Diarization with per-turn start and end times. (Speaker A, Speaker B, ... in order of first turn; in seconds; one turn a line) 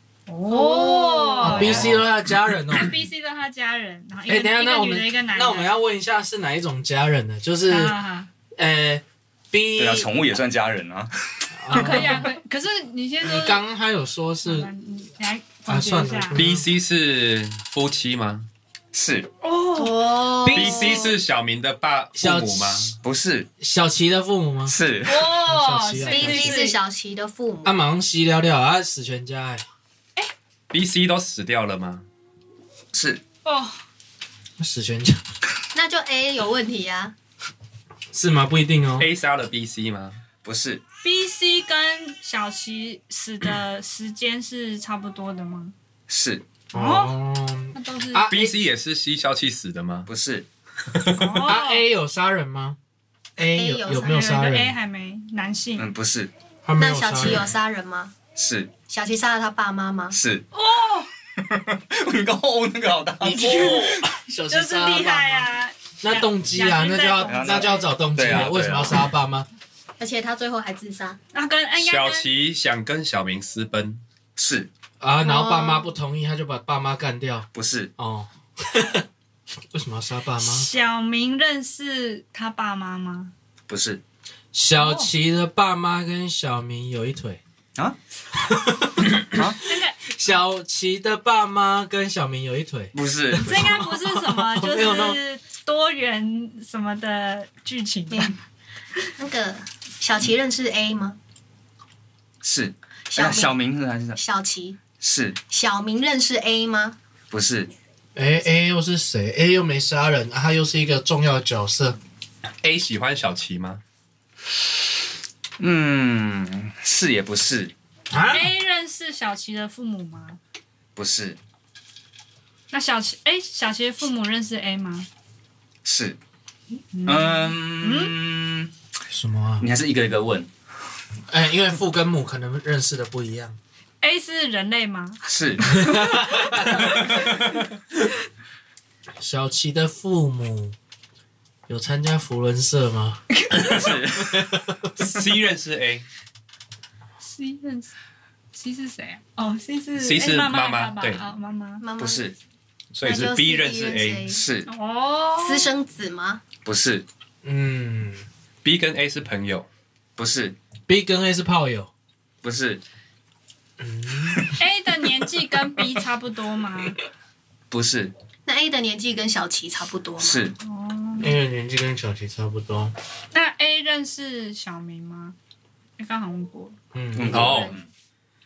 Speaker A: 0.3-1.9
Speaker B: 0.5-1.7
Speaker C: 1.4-3.0
Speaker D: 1.7-1.9
Speaker A: 2.7-5.7
Speaker C: 4.3-8.0
Speaker A: 7.7-8.3
Speaker C: 8.6-10.1
Speaker D: 9.8-12.0
Speaker C: 11.5-12.3
Speaker A: 11.7-13.6
Speaker C: 13.2-14.7
Speaker A: 14.4-16.4
Speaker C: 15.7-16.7
Speaker E: 16.3-18.5
Speaker D: 18.9-19.3
Speaker A: 19.4-20.1
Speaker B: 19.7-21.1
Speaker C: 20.4-21.0
Speaker E: 20.4-22.9
Speaker C: 22.1-23.0
Speaker D: 23.0-23.5
Speaker C: 23.6-24.8
Speaker D: 24.7-25.3
Speaker A: 25.0-26.8
Speaker C: 25.4-26.6
Speaker B: 26.1-27.7
Speaker C: 27.6-29.6
Speaker E: 30.7-32.1
Speaker D: 32.9-33.2
Speaker A: 33.4-33.8
Speaker C: 34.6-35.2
Speaker B: 35.7-37.1
Speaker C: 38.1-39.1
Speaker E: 39.0-40.2
Speaker D: 40.4-40.8
Speaker A: 41.0-45.7
Speaker D: 46.1-46.4
Speaker A: 46.7-47.1
Speaker C: 46.7-48.5
Speaker A: 47.7-48.3
Speaker E: 48.3-50.1
Speaker D: 50.1-50.5
Speaker A: 51.2-51.8
Speaker C: 51.4-52.8
Speaker C: 53.4-54.8
Speaker B: 53.5-54.3
Speaker A: 54.0-55.9
Speaker D: 55.8-56.3
Speaker C: 56.6-57.5
Speaker B: 56.8-58.1
Speaker D: 58.4-58.7
Speaker B: 58.9-60.2
Speaker D: 60.1-60.4
Speaker A: 60.5-61.1
Speaker D: 61.4-63.9
Speaker C: 63.2-65.5
Speaker A: 63.3-67.8
Speaker C: 66.0-69.5
Speaker D: 67.3-69.0
Speaker B: 70.0-71.2
Speaker A: 71.3-72.3
Speaker E: 71.8-74.0
Speaker D: 74.4-74.7
Speaker C: 75.0-79.0
Speaker B: 75.2-75.9
Speaker D: 77.5-77.9
Speaker C: 79.7-80.7
Speaker A: 80.4-83.3
Speaker D: 83.7-84.0
Speaker C: 84.5-87.4
Speaker A: 84.8-85.1
Speaker C: 88.3-95.2
Speaker D: 89.3-89.6
Speaker A: 89.6-90.0
Speaker D: 92.9-93.8
Speaker A: 93.4-98.3
Speaker B: 99.2-101.2
Speaker D: 102.4-104.2
Speaker B: 103.1-103.5
Speaker B: 104.2-104.8
Speaker D: 105.0-105.4
Speaker B: 105.5-107.0
Speaker D: 107.3-107.7
Speaker C: 108.2-112.0
Speaker E: 112.6-113.8
Speaker D: 115.6-117.7
Speaker C: 118.1-118.5
Speaker A: 118.2-120.4
Speaker D: 121.0-121.4
Speaker A: 122.7-125.1
Speaker D: 125.8-126.2
Speaker A: 126.9-128.1
Speaker D: 127.0-128.7
Speaker C: 129.1-129.7
Speaker D: 129.6-130.5
Speaker C: 131.3-133.6
Speaker A: 134.0-136.8
Speaker D: 135.3-135.8
Speaker C: 135.8-136.9
Speaker E: 136.8-137.6
Speaker C: 139.2-140.8
Speaker C: 141.7-143.2
Speaker A: 143.4-143.8
Speaker D: 143.6-144.5
Speaker E: 145.0-146.1
Speaker A: 147.2-147.9
Speaker A: 148.5-151.8
Speaker E: 150.0-151.2
Speaker B: 151.8-152.3
Speaker D: 152.0-152.3
Speaker E: 152.9-154.3
Speaker B: 153.0-154.4
Speaker D: 154.3-154.7
Speaker A: 154.7-155.7
Speaker B: 155.4-156.4
Speaker D: 156.6-157.0
Speaker C: 157.4-158.2
Speaker E: 158.6-159.7
Speaker D: 160.2-160.6
Speaker C: 160.9-161.9
Speaker D: 162.4-162.8
Speaker C: 163.8-164.6
Speaker A: 164.6-167.0
Speaker D: 167.7-168.1
Speaker B: 168.4-170.5
Speaker D: 170.2-170.5
Speaker A: 170.6-171.3
Speaker C: 171.2-172.9
Speaker A: 173.3-175.3
Speaker A: 176.0-176.8
Speaker C: 176.9-177.7
Speaker D: 177.1-177.9
Speaker E: 177.3-177.7